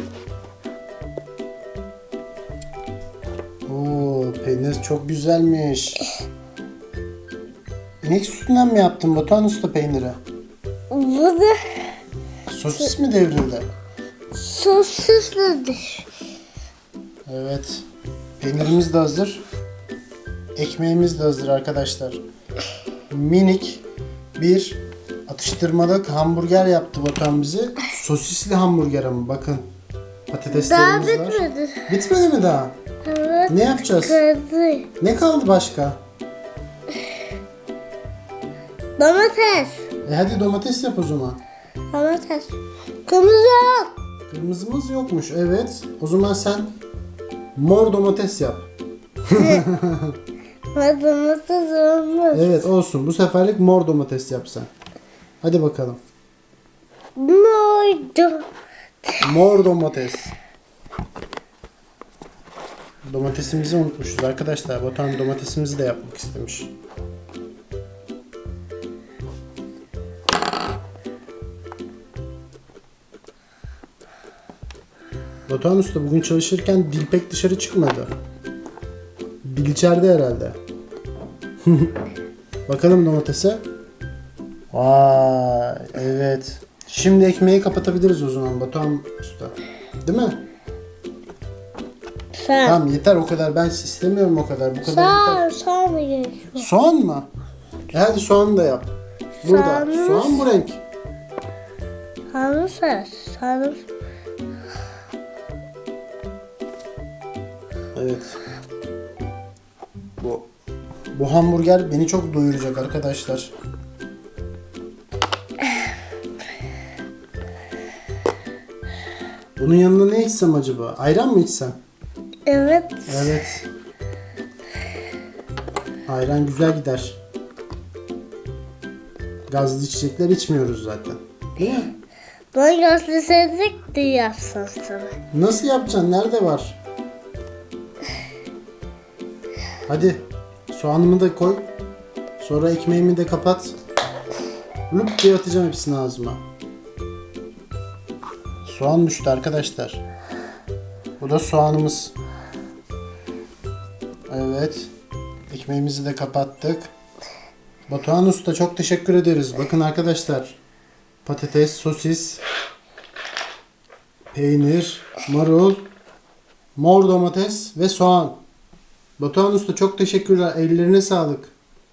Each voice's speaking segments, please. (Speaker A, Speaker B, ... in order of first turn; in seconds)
Speaker A: 3.6-6.1, 8.0-10.2, 12.5-13.7, 17.3-17.8, 18.4-19.4, 20.6-22.2, 23.1-23.8, 24.4-29.7, 30.3-32.7, 33.5-34.2, 35.0-36.0, 40.0-41.4, 44.3-46.7, 47.5-48.7, 49.3-50.2, 52.3-54.7, 55.4-56.0, 59.2-60.3, 63.0-66.7, 75.5-78.1, 79.4-80.6, 81.6-81.9, 82.7-83.6, 84.7-90.4, 92.6-95.5, 96.6-97.3, 97.9-98.9, 99.4-100.8, 107.9-108.4, 110.2-110.5, 111.1-113.5, 119.6-121.8, 123.1-123.7, 126.1-127.2, 129.5-131.9, 135.3-136.8, 139.9-141.7, 142.4-143.8, 144.9-146.4, 148.6-150.0, 151.2-152.1, 154.3-154.9, 155.5-156.9, 157.9-160.6, 161.2-162.4, 164.3-165.8, 166.8-168.4, 169.2-171.5
Speaker B: 10.9-12.0, 14.3-16.1, 30.5-31.9, 33.0-34.9, 39.0-39.8, 41.9-43.9, 49.3-49.6, 50.7-52.6, 57.1-58.5, 92.3-92.8, 94.8-96.7, 99.4-100.5, 102.3-103.8, 122.5-123.4, 132.5-135.1